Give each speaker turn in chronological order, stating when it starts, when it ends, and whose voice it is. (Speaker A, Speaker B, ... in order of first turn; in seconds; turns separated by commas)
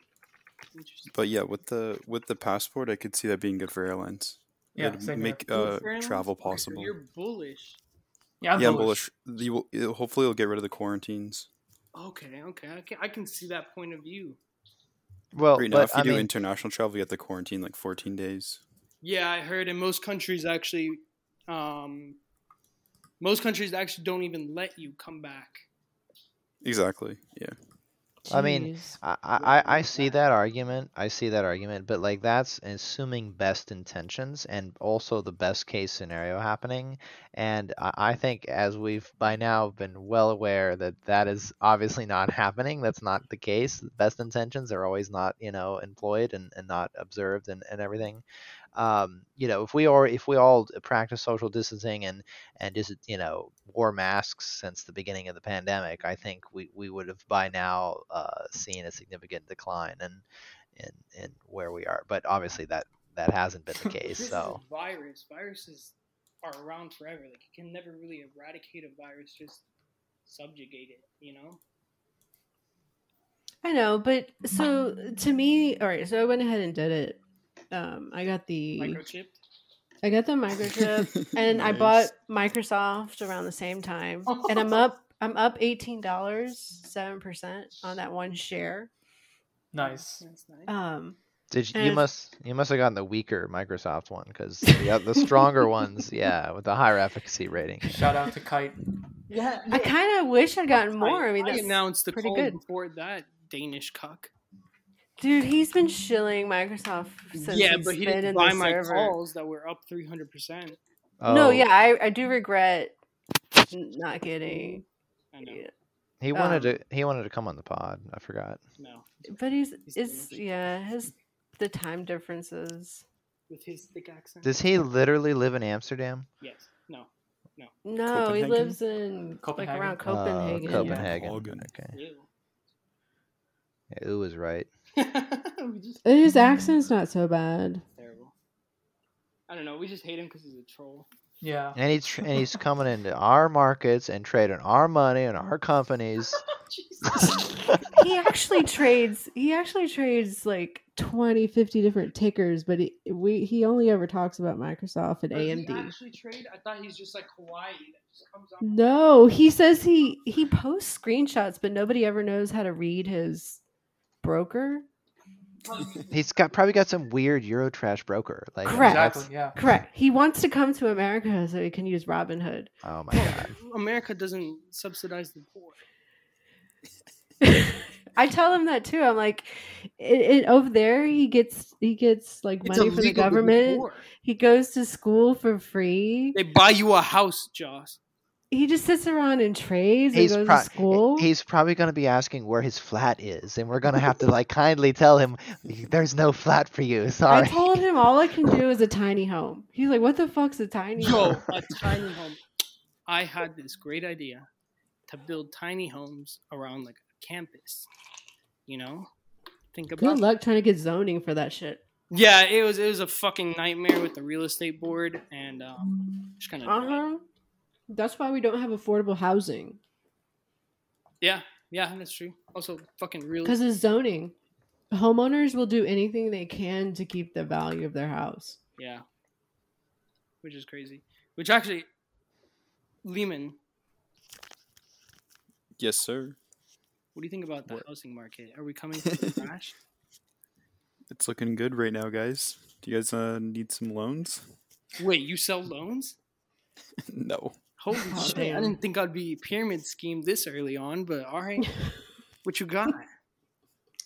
Speaker A: 0.7-1.1, Speaker B: 1.1-6.9, Speaker C: 4.8-5.5, Speaker A: 5.5-7.8, Speaker C: 8.4-9.0, Speaker B: 8.5-11.5, Speaker A: 11.9-14.4, Speaker D: 15.3-16.3, Speaker B: 15.5-18.6, Speaker A: 19.0-22.2, Speaker A: 23.2-25.6, Speaker B: 26.6-27.6, Speaker E: 28.2-29.0, Speaker D: 28.3-48.2, Speaker A: 29.4-30.2, Speaker D: 48.7-60.2, Speaker D: 60.8-64.6, Speaker A: 64.0-69.6, Speaker A: 70.2-71.6, Speaker E: 73.6-77.2, Speaker E: 77.7-79.0, Speaker A: 78.8-79.4, Speaker E: 80.0-88.9, Speaker B: 81.4-82.1, Speaker A: 84.3-84.8, Speaker C: 89.7-90.2, Speaker A: 89.8-90.7, Speaker E: 90.7-91.2, Speaker D: 91.5-98.1, Speaker E: 91.7-92.1, Speaker C: 97.8-98.8, Speaker A: 99.3-99.9, Speaker E: 99.7-102.6, Speaker A: 101.0-104.3, Speaker E: 105.2-109.2, Speaker A: 107.3-110.8, Speaker D: 111.2-111.7, Speaker E: 111.2-112.9, Speaker E: 113.7-114.8, Speaker A: 114.5-114.8, Speaker A: 115.3-115.6, Speaker E: 115.4-115.7, Speaker D: 116.2-118.6, Speaker E: 116.3-116.7, Speaker A: 118.8-119.3, Speaker E: 119.3-123.0, Speaker A: 119.8-120.7, Speaker A: 123.5-124.6, Speaker D: 124.4-126.3, Speaker A: 126.4-127.7, Speaker E: 127.8-131.1, Speaker D: 128.1-128.8, Speaker C: 129.4-130.0, Speaker D: 130.0-132.0, Speaker C: 130.7-131.1, Speaker B: 131.0-131.7, Speaker A: 131.9-132.3, Speaker D: 133.9-134.7, Speaker A: 135.0-136.0, Speaker E: 136.0-137.8, Speaker A: 138.0-138.3, Speaker A: 139.5-141.1, Speaker C: 141.4-141.8, Speaker D: 141.7-146.4, Speaker A: 146.6-147.8, Speaker E: 147.9-155.9, Speaker A: 155.3-158.8, Speaker E: 158.6-163.6, Speaker E: 164.2-164.8, Speaker A: 165.6-166.1, Speaker D: 166.1-169.3, Speaker E: 168.6-172.7, Speaker C: 168.8-169.5, Speaker D: 172.8-173.5, Speaker A: 173.1-175.8, Speaker E: 177.4-186.4, Speaker A: 182.6-184.1, Speaker A: 186.3-188.0, Speaker E: 188.5-191.3, Speaker D: 190.1-197.8, Speaker E: 197.3-201.4, Speaker A: 201.0-202.4, Speaker A: 203.1-204.5, Speaker A: 205.1-207.9, Speaker A: 208.7-209.1, Speaker A: 209.7-210.2, Speaker E: 210.0-211.8, Speaker A: 212.1-217.0, Speaker E: 216.6-217.2, Speaker E: 217.9-219.8, Speaker A: 221.2-223.6, Speaker E: 223.4-224.3, Speaker E: 224.9-228.6, Speaker A: 228.8-229.0, Speaker A: 230.4-231.9, Speaker A: 233.0-233.6, Speaker B: 235.8-236.4, Speaker A: 237.1-239.7, Speaker B: 241.1-244.4, Speaker A: 245.0-246.1, Speaker B: 247.1-247.6, Speaker A: 247.8-251.8, Speaker E: 248.1-248.8, Speaker A: 252.4-253.1